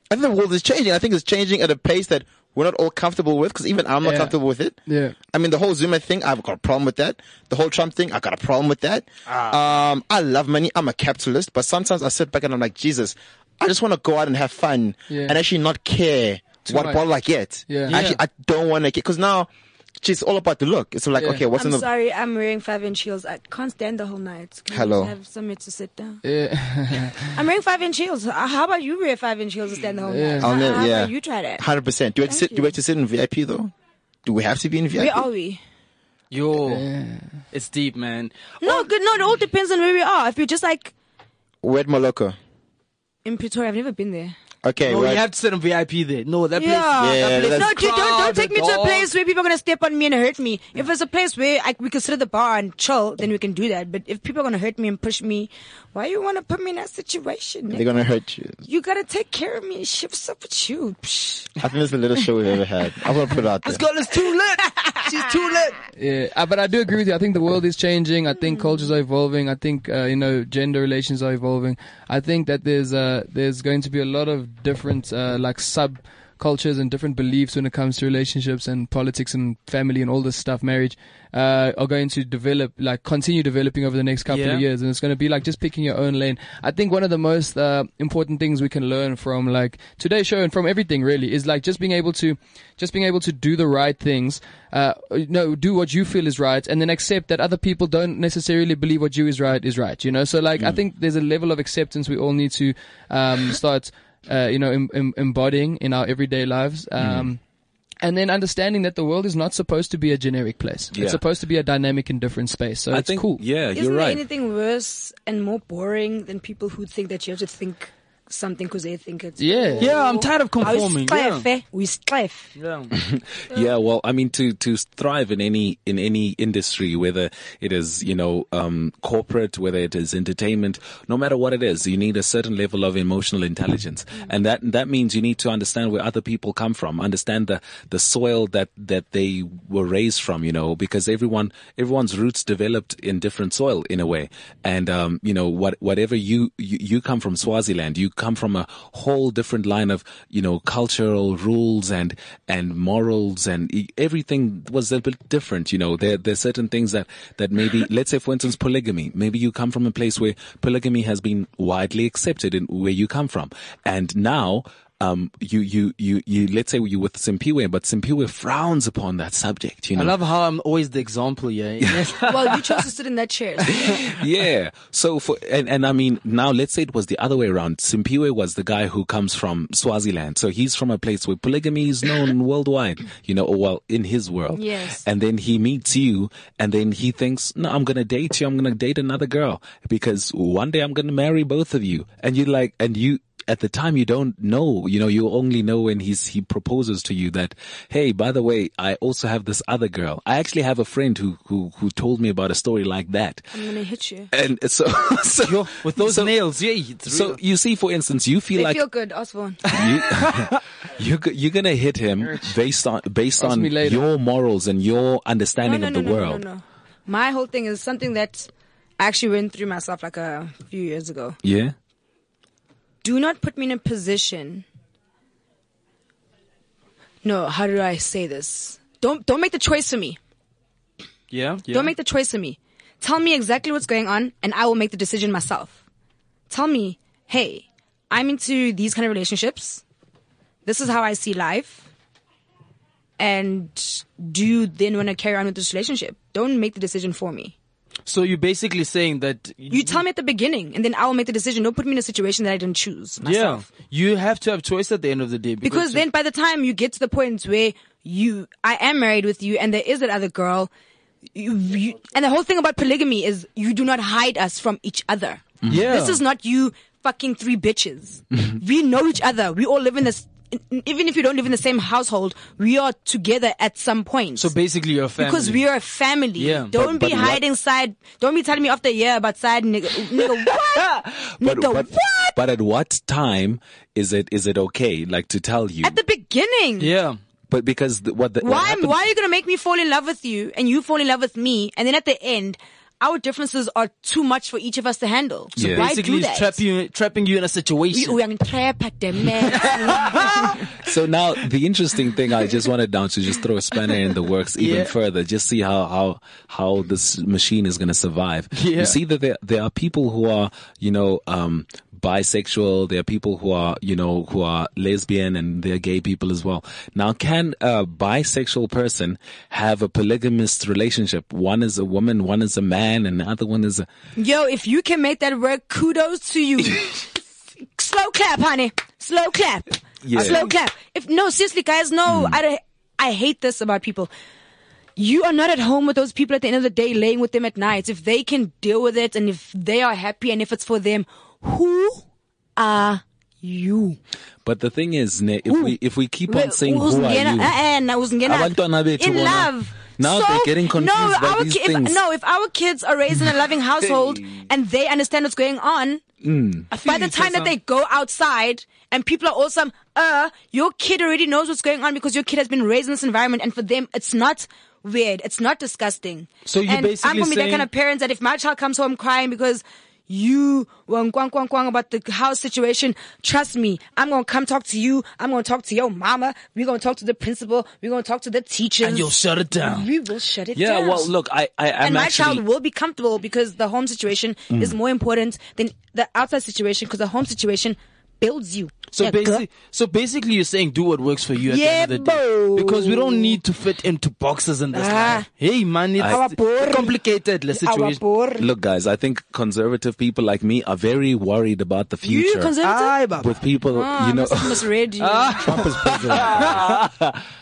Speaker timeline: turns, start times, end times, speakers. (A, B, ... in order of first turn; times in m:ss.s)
0:00.1-0:04.8 A
0:04.0-0:04.3 B
0:04.9-0:05.2 B
0:05.3-0:19.5 A
0:09.3-0:09.6 C
0:15.1-0:15.4 B
0:16.7-0:17.0 B
0:17.7-0:18.0 B
0:17.9-0:18.2 C
0:20.0-0:21.9 A
0:21.2-0:21.4 B
0:21.5-0:26.2 D
0:24.7-0:25.1 A
0:26.2-0:27.3 B
0:27.2-0:31.6 D
0:30.1-0:30.5 B
0:30.4-0:33.7 A
0:32.2-0:32.7 D
0:34.2-0:35.3 A
0:35.0-0:35.6 D
0:36.3-0:36.8 C
0:36.7-0:37.3 B
0:37.5-0:38.9 C
0:38.6-0:40.9 D
0:41.6-0:42.4 A
0:43.2-0:44.3 D
0:44.6-0:45.2 A
0:44.9-0:49.1 C
0:46.6-0:57.9 D
0:47.0-0:47.8 A
0:57.7-0:58.6 A
0:58.6-1:01.5 D
1:01.6-1:03.8 A
1:03.6-1:05.8 C
1:06.0-1:47.4 B
1:24.3-1:24.6 C
1:47.0-1:47.3 E
1:48.0-1:53.4 B
1:50.9-1:51.2 E
1:52.9-1:54.2 E
1:53.7-2:02.5 D
1:59.4-1:59.9 B
1:59.8-2:01.5 C
2:02.6-2:02.9 C
2:02.9-2:50.1 E
2:49.9-2:52.3 C
2:51.8-2:52.3 E
2:52.2-2:54.0 D
2:53.7-3:23.5 E
3:04.5-3:05.0 D
3:23.5-3:24.3 D
3:24.3-3:26.3 E
3:25.4-3:27.4 C
3:27.1-3:28.8 E
3:28.5-3:29.7 D
3:29.6-3:36.4 E
3:29.7-3:30.6 C
3:33.4-3:34.0 B
3:35.6-3:41.4 D
3:41.4-3:41.7 E
3:43.0-3:44.6 D
3:47.2-3:50.2 D
3:51.3-3:51.9 C
3:51.7-3:55.8 D
3:56.5-3:59.8 D
4:00.6-4:01.8 D
4:03.2-4:07.6 D
4:08.0-4:10.0 C
4:09.7-4:13.6 D
4:13.2-4:16.0 C
4:15.6-4:20.7 D
4:21.3-4:34.5 D
4:25.6-4:25.9 E
4:25.7-4:26.2 C
4:34.4-4:35.6 C
4:35.2-4:42.4 D
4:36.4-4:37.4 C
4:41.4-4:46.0 E
4:45.8-4:46.9 D
4:46.8-4:47.2 C
4:47.5-4:49.0 E
4:48.4-4:56.6 D
4:55.6-4:55.9 E
4:55.6-4:58.2 C
4:57.9-5:00.7 D
4:59.5-5:00.5 C
5:00.8-5:23.9 E
5:04.6-5:04.9 C
5:08.5-5:09.0 C
5:24.2-5:34.1 D
5:30.0-5:30.5 E
5:32.1-5:32.4 E
5:35.0-5:42.0 D
5:42.6-5:44.0 D
5:44.4-5:47.6 E
5:45.5-5:45.7 D
5:46.3-5:56.0 D
5:48.2-5:52.0 E
5:53.9-5:54.2 E
5:56.2-5:56.7 E
5:56.7-6:21.1 D
5:56.7-5:57.5 C
6:06.4-6:07.7 C
6:18.8-6:19.9 C
6:20.5-6:22.4 E
6:21.8-6:29.4 D
6:24.5-6:24.8 E
6:28.9-6:38.0 C
6:31.5-6:33.4 D
6:34.7-6:35.3 D
6:36.0-6:36.9 D
6:37.5-6:38.5 D
6:38.4-6:42.5 E
6:42.0-6:43.0 D
6:42.6-6:43.3 C
6:43.2-6:44.7 E
6:43.6-6:45.6 D
6:45.0-6:46.9 C
6:45.4-6:46.7 A
6:46.6-6:47.2 E